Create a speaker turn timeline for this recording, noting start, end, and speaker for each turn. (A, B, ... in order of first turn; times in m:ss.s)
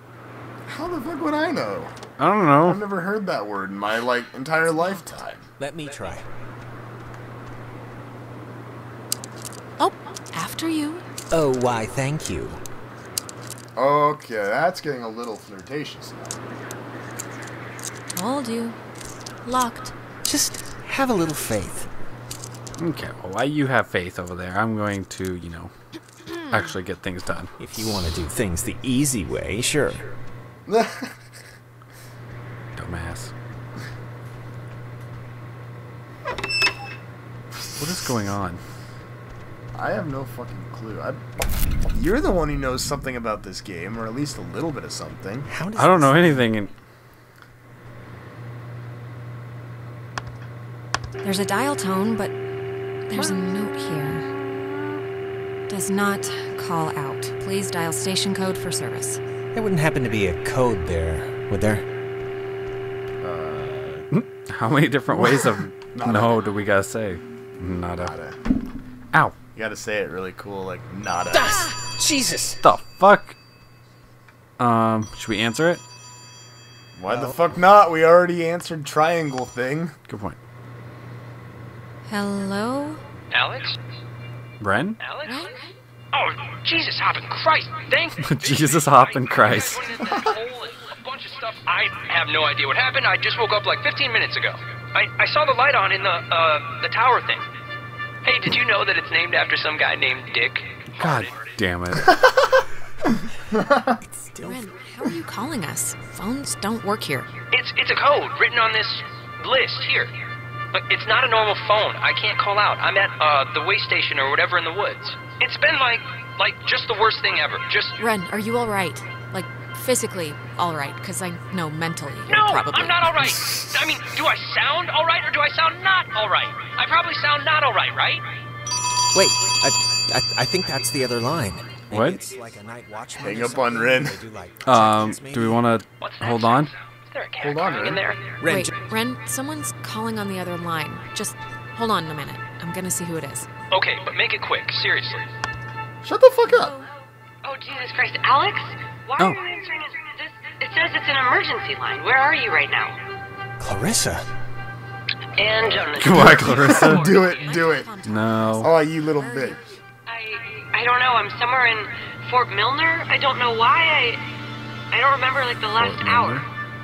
0:00.7-0:01.9 A
0:02.2-0:02.8 B
0:02.6-0:05.5 A
0:04.7-0:05.0 C
0:05.6-0:06.2 D
0:09.8-0:11.0 C
0:11.3-0:12.6 D
0:13.8-0:16.4 A
0:18.1-0:18.8 C
0:19.4-0:19.9 C
0:20.2-0:21.9 D
0:22.8-0:25.7 B
0:26.3-0:26.7 C
0:26.5-0:27.5 B
0:27.6-0:30.1 D
0:30.6-0:31.2 A
0:32.8-0:33.3 B
0:37.8-0:38.6 B
0:39.7-0:45.5 A
0:45.5-0:46.4 D
0:45.7-0:46.7 B
0:51.2-0:52.3 C
0:53.1-0:54.3 C
0:55.7-0:59.2 C
0:59.5-1:01.8 D
1:03.2-1:04.1 A
1:04.1-1:08.1 B
1:05.1-1:06.4 A
1:08.0-1:08.4 A
1:09.5-1:11.7 A
1:11.3-1:12.7 D
1:12.6-1:13.4 B
1:14.6-1:15.8 B
1:17.0-1:20.0 A
1:17.1-1:17.4 D
1:20.1-1:20.4 B
1:22.1-1:23.0 C
1:23.3-1:23.8 E
1:24.6-1:25.0 B
1:25.0-1:25.5 E
1:25.2-1:25.6 C
1:26.1-1:37.4 E
1:28.2-1:29.9 B
1:30.0-1:30.3 A
1:38.2-1:41.5 E
1:40.9-1:42.2 B
1:43.5-1:43.9 A
1:44.0-1:44.6 D
1:44.4-1:47.3 C
1:47.5-1:50.1 E
1:50.7-1:58.0 E
1:58.0-2:03.3 C
2:02.3-2:08.2 E
2:09.1-2:15.7 D
2:11.9-2:12.2 B
2:13.2-2:14.2 A
2:14.6-2:16.7 B
2:16.0-2:18.4 E
2:17.4-2:18.0 A
2:17.9-2:18.2 F
2:18.4-2:18.7 D
2:18.4-2:23.5 C
2:23.7-2:25.2 E
2:26.0-2:26.7 A
2:26.4-2:26.9 C
2:27.4-2:33.0 F
2:33.6-2:34.3 D
2:35.4-2:37.6 F
2:35.4-2:37.9 A
2:36.0-2:37.1 B
2:37.3-2:39.8 C
2:38.0-2:38.7 B
2:38.6-2:39.6 A
2:40.1-2:44.3 F
2:44.9-2:46.4 F
2:45.8-2:46.4 B